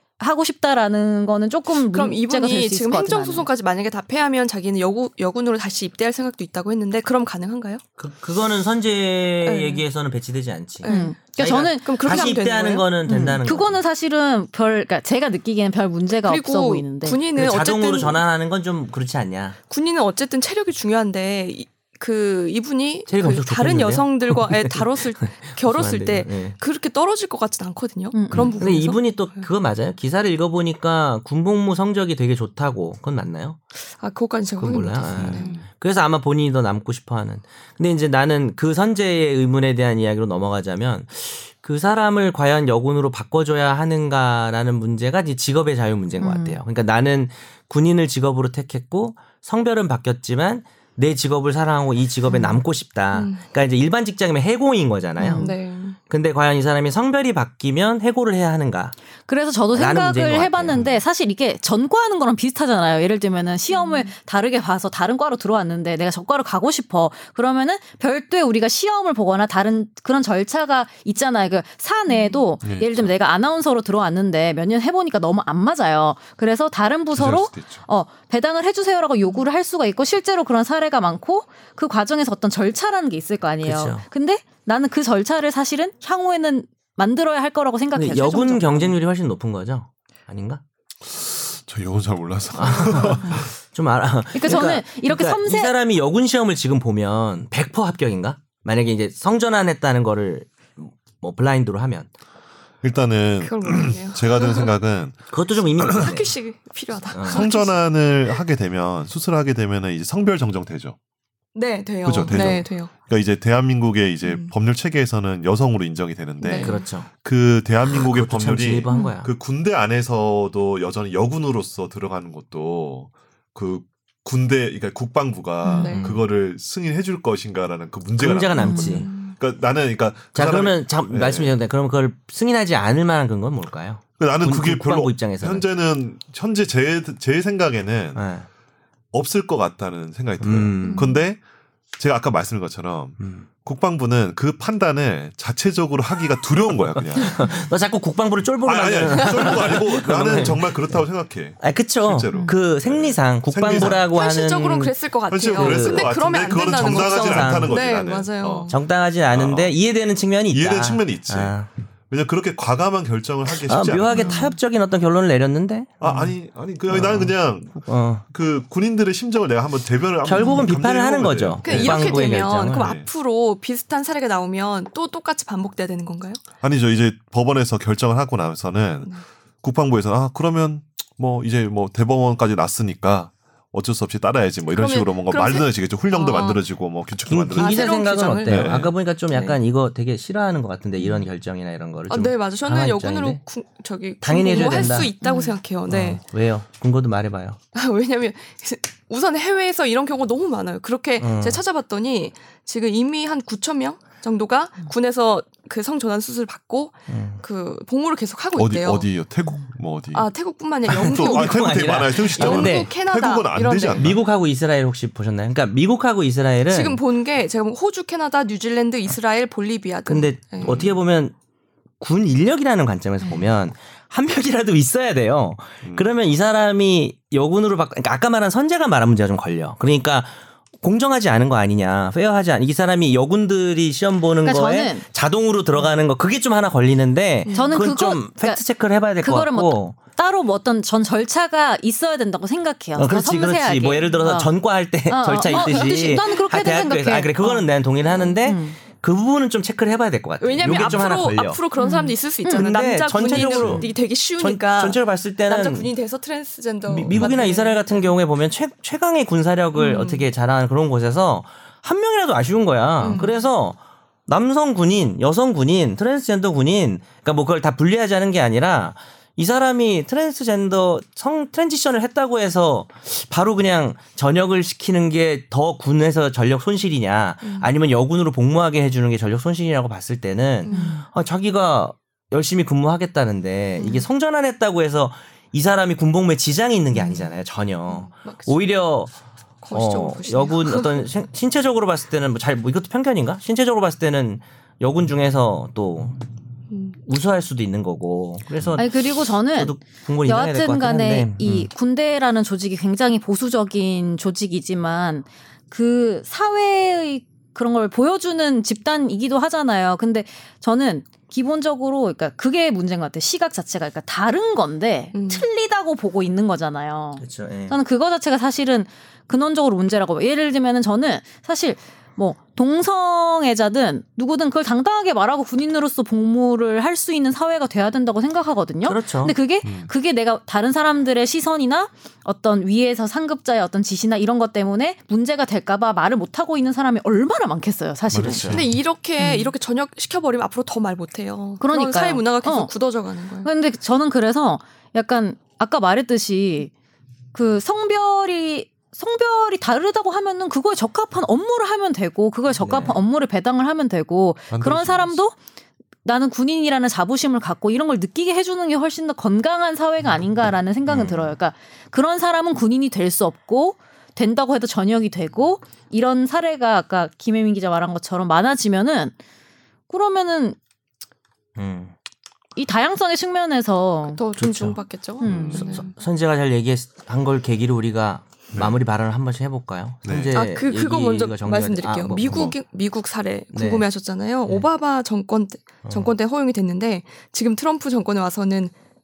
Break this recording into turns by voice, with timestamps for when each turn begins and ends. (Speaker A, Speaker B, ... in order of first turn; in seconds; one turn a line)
Speaker A: 0.2-3.5
Speaker B: 1.9-7.8
Speaker C: 8.0-13.8
Speaker B: 9.4-9.8
Speaker B: 10.8-12.9
Speaker A: 10.9-12.3
Speaker A: 13.0-17.2
Speaker B: 16.2-18.2
Speaker C: 17.3-19.6
Speaker B: 19.7-29.4
Speaker C: 23.1-26.6
Speaker A: 28.1-28.8
Speaker C: 28.3-33.6
Speaker B: 34.0-35.6
Speaker C: 34.6-55.5
Speaker D: 35.1-35.6
Speaker A: 46.2-46.6
Speaker B: 53.1-53.4
Speaker A: 55.2-55.5
Speaker B: 55.3-56.0
Speaker C: 56.1-58.9
Speaker A: 59.3-88.9
Speaker C: 59.7-60.9
Speaker B: 63.7-64.1
Speaker B: 72.1-72.4
Speaker D: 72.6-73.1
Speaker D: 77.1-77.8
Speaker C: 83.6-84.0
Speaker C: 87.9-90.6
Speaker D: 91.0-93.5
Speaker C: 92.5-102.1
Speaker A: 94.3-95.7
Speaker D: 102.8-105.2
Speaker B: 103.4-104.7
Speaker C: 105.3-106.3
Speaker D: 105.8-106.2
Speaker B: 105.8-108.4
Speaker C: 107.1-107.5
Speaker D: 107.3-111.0
Speaker B: 111.5-112.9
Speaker D: 112.0-131.5
Speaker B: 114.2-114.5
Speaker B: 116.4-116.8
Speaker C: 116.6-117.1
Speaker C: 117.8-119.3
Speaker A: 125.6-126.0
Speaker B: 125.8-126.2
Speaker C: 125.9-126.2
Speaker C: 128.2-129.1
Speaker A: 128.6-129.0
Speaker B: 128.6-129.4
Speaker C: 130.3-135.7
Speaker D: 134.2-138.2
Speaker C: 138.1-138.5
Speaker D: 139.1-141.4
Speaker C: 140.4-141.1
Speaker B: 140.8-141.2
Speaker D: 142.0-147.6
Speaker C: 143.2-143.5
Speaker C: 146.9-151.0
Speaker D: 148.6-154.1
Speaker C: 151.6-154.9
Speaker B: 153.7-158.8
Speaker D: 155.3-158.7
Speaker C: 155.5-157.8
Speaker C: 158.7-161.7
Speaker D: 159.3-159.7
Speaker D: 160.5-161.6
Speaker D: 162.1-164.4
Speaker C: 163.5-166.1
Speaker A: 164.1-164.5
Speaker D: 166.0-173.1
Speaker A: 166.1-166.3
Speaker C: 166.9-168.2
Speaker C: 170.2-172.9
Speaker A: 170.4-170.7
Speaker B: 171.6-176.4
Speaker D: 176.6-188.9
Speaker B: 184.7-186.6
Speaker C: 187.3-193.4
Speaker B: 187.5-189.6
Speaker B: 192.1-196.2
Speaker C: 194.2-195.1
Speaker A: 195.2-195.6
Speaker C: 195.9-197.6
Speaker B: 197.7-209.1
Speaker C: 201.2-201.6
Speaker C: 207.1-207.4
Speaker D: 208.6-210.2
Speaker B: 210.1-214.1
Speaker D: 210.8-214.2
Speaker C: 210.9-212.9
Speaker C: 213.9-217.0
Speaker B: 216.7-220.8
Speaker C: 220.1-221.3
Speaker D: 220.6-220.9
Speaker C: 222.0-239.9
Speaker D: 225.8-226.1
Speaker A: 234.4-235.0
Speaker B: 237.4-237.8
Speaker A: 237.5-238.6
Speaker A: 239.2-244.5
Speaker C: 242.9-251.6
Speaker A: 245.0-248.8
Speaker B: 245.5-245.8
Speaker B: 250.4-258.1
Speaker A: 251.8-252.6
Speaker C: 252.5-255.9
Speaker D: 253.4-253.9
Speaker C: 256.9-289.1
Speaker B: 259.7-260.2
Speaker B: 263.0-263.3
Speaker B: 277.4-277.7
Speaker B: 280.6-280.9
Speaker A: 280.7-281.0
Speaker B: 283.8-284.0
Speaker B: 286.9-287.2
Speaker B: 287.9-288.6
Speaker B: 289.6-291.1
Speaker C: 289.7-296.2
Speaker B: 296.7-296.9
Speaker C: 297.0-301.7
Speaker A: 298.8-338.5
Speaker B: 315.1-315.5
Speaker C: 317.2-317.8
Speaker C: 328.8-329.3
Speaker C: 338.1-338.6
Speaker D: 338.1-338.7
Speaker B: 338.5-343.5
Speaker A: 339.2-339.5
Speaker A: 341.6-342.7
Speaker A: 343.4-346.7
Speaker A: 347.3-355.4
Speaker C: 352.6-353.0
Speaker D: 354.5-355.2
Speaker A: 356.0-369.1
Speaker C: 360.9-361.1
Speaker A: 369.9-370.6
Speaker C: 371.6-371.9
Speaker A: 372.6-374.2
Speaker B: 374.1-375.9
Speaker C: 374.4-374.8
Speaker A: 375.2-375.9
Speaker D: 375.2-375.6
Speaker C: 375.5-382.6
Speaker D: 380.1-380.3
Speaker B: 380.3-388.7
Speaker C: 383.5-383.9
Speaker C: 385.8-386.1